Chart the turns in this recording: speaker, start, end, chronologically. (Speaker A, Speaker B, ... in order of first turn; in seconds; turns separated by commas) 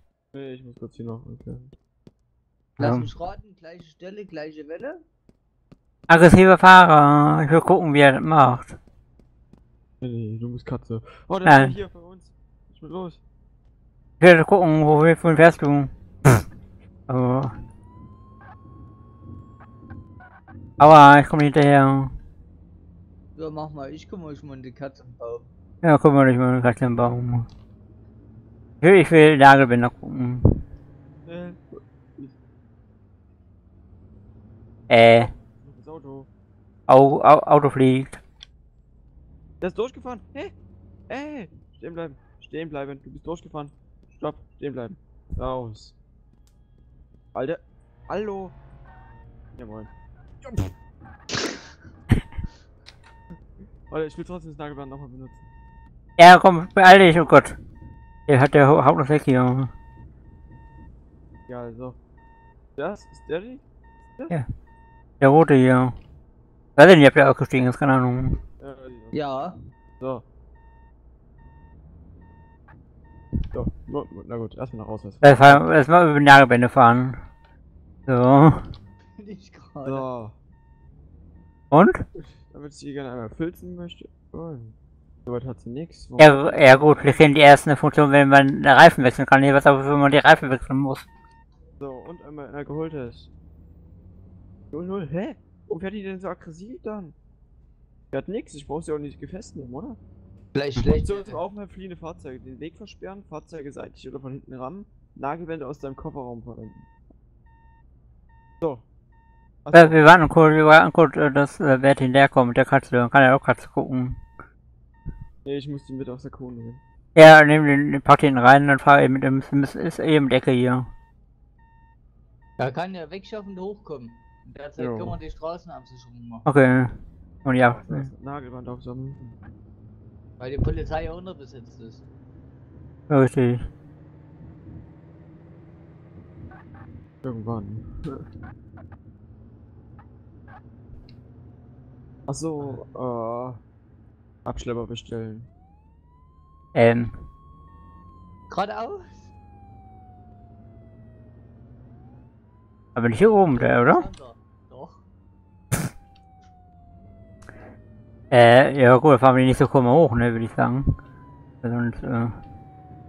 Speaker A: 0.3-1.7, Speaker B: 2.8-3.1, Speaker C: 2.8-5.0, Speaker B: 6.1-8.8, Speaker A: 10.0-13.2, Speaker B: 11.4-11.8, Speaker B: 14.2-16.4, Speaker B: 17.1-17.5, Speaker B: 20.8-22.1, Speaker C: 23.3-25.5, Speaker B: 25.8-27.5, Speaker B: 28.8-30.6, Speaker A: 31.2-32.4, Speaker B: 34.9-35.3, Speaker A: 35.5-36.3, Speaker B: 36.9-38.2, Speaker A: 39.6-40.5, Speaker A: 41.1-46.0, Speaker A: 47.3-48.5, Speaker A: 49.6-49.9, Speaker A: 50.4-50.7, Speaker A: 53.9-55.5, Speaker B: 56.2-57.6, Speaker B: 58.3-59.7, Speaker A: 61.5-62.0, Speaker A: 62.8-64.3, Speaker B: 65.2-65.9, Speaker B: 66.8-68.4, Speaker A: 68.6-69.2, Speaker C: 69.1-69.6, Speaker A: 70.0-70.2, Speaker A: 73.5-75.7, Speaker B: 75.2-77.2, Speaker B: 78.1-78.7, Speaker C: 79.1-80.1, Speaker A: 79.8-80.4, Speaker B: 81.7-82.0, Speaker A: 82.5-87.0, Speaker B: 86.2-91.1, Speaker A: 91.8-93.3, Speaker A: 94.7-97.2, Speaker A: 98.1-100.0, Speaker C: 100.5-101.4, Speaker A: 101.0-106.9, Speaker A: 108.6-108.9, Speaker A: 109.6-110.0, Speaker B: 109.7-114.2, Speaker A: 115.4-116.8, Speaker B: 117.2-120.9, Speaker C: 122.6-126.5, Speaker A: 124.8-125.2, Speaker B: 126.5-128.1, Speaker A: 127.7-129.3, Speaker C: 130.4-132.0, Speaker B: 133.1-133.6, Speaker A: 137.2-138.2, Speaker A: 142.3-143.6, Speaker A: 144.4-145.5, Speaker B: 146.7-147.1, Speaker C: 148.5-149.3, Speaker B: 152.9-154.1, Speaker C: 153.2-155.0, Speaker B: 158.3-160.8, Speaker B: 161.6-162.3